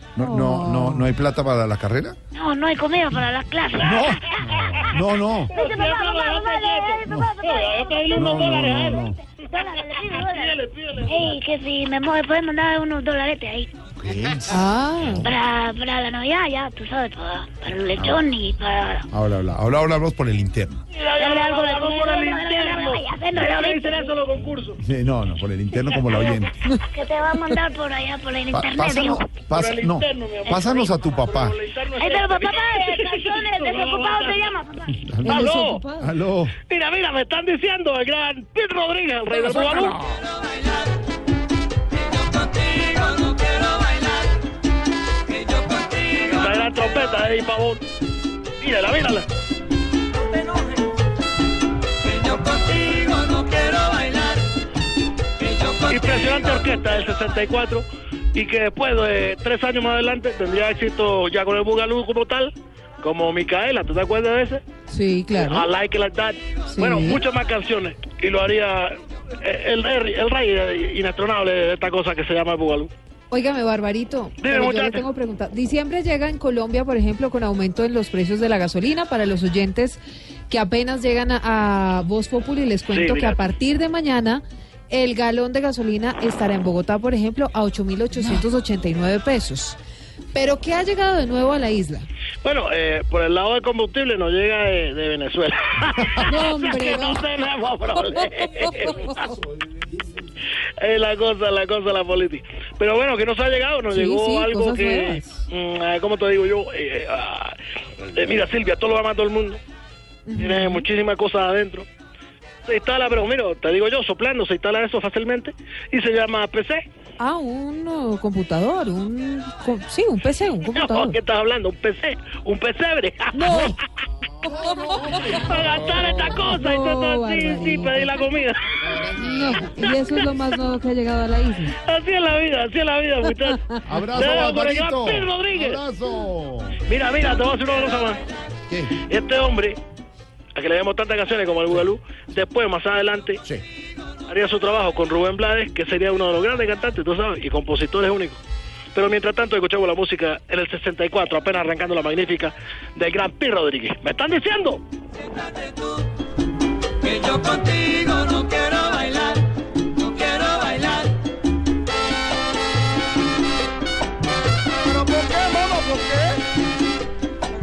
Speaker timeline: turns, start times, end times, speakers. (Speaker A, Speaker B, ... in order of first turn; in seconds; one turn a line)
Speaker A: 0.2-2.2
Speaker B: 0.2-1.1
Speaker C: 2.3-8.4
Speaker A: 3.8-5.5
Speaker D: 5.5-9.1
Speaker A: 8.1-9.2
Speaker C: 9.3-13.7
Speaker D: 10.0-11.3
Speaker A: 14.0-15.3
Speaker B: 14.5-15.3
Speaker C: 15.2-19.1
Speaker A: 18.0-18.2
Speaker A: 19.1-20.8
Speaker D: 20.9-24.8
Speaker C: 21.2-24.1
Speaker A: 24.8-26.5
Speaker D: 26.0-26.4
Speaker C: 26.9-29.3
Speaker A: 28.5-31.6
Speaker D: 29.5-34.5
Speaker C: 31.9-35.0
Speaker A: 35.0-36.6
Speaker B: 35.2-36.1
Speaker D: 35.2-35.8
Speaker D: 36.7-40.2
Speaker A: 39.4-40.2
Speaker E: 42.1-44.3
Speaker E: 45.3-46.2
Speaker D: 46.1-47.8
Speaker D: 48.6-49.3
Speaker E: 50.2-50.8
Speaker E: 52.0-54.5
Speaker E: 55.4-55.8
Speaker D: 55.8-64.6
Speaker B: 64.9-65.7
Speaker D: 65.4-72.9
Speaker B: 66.7-67.2
Speaker B: 73.3-89.8
Speaker D: 74.4-75.0
Speaker D: 82.9-83.4
Speaker B: 90.3-92.1
Speaker D: 92.4-99.4
Speaker B: 96.3-97.2
Speaker A: 99.2-100.1
Speaker D: 100.8-107.6
Speaker B: 103.9-105.5
Speaker D: 108.1-109.6
Speaker B: 110.3-110.9
Speaker D: 110.4-111.9
Speaker D: 112.7-116.8
Speaker B: 117.2-121.2
Speaker D: 120.8-123.5
Speaker B: 123.3-123.8
Speaker A: 123.5-123.8
Speaker B: 124.4-128.2
Speaker A: 124.6-126.0
Speaker D: 125.3-129.1
Speaker B: 129.2-131.8
Speaker D: 131.9-135.8
Speaker A: 133.8-136.8
Speaker D: 136.9-138.2
Speaker A: 138.7-138.9
Speaker D: 139.0-139.8
Speaker D: 140.6-143.4
Speaker D: 144.3-148.4
Speaker D: 148.9-154.8
Speaker E: 157.0-159.4
Speaker E: 160.0-161.1
Speaker A: 165.0-166.2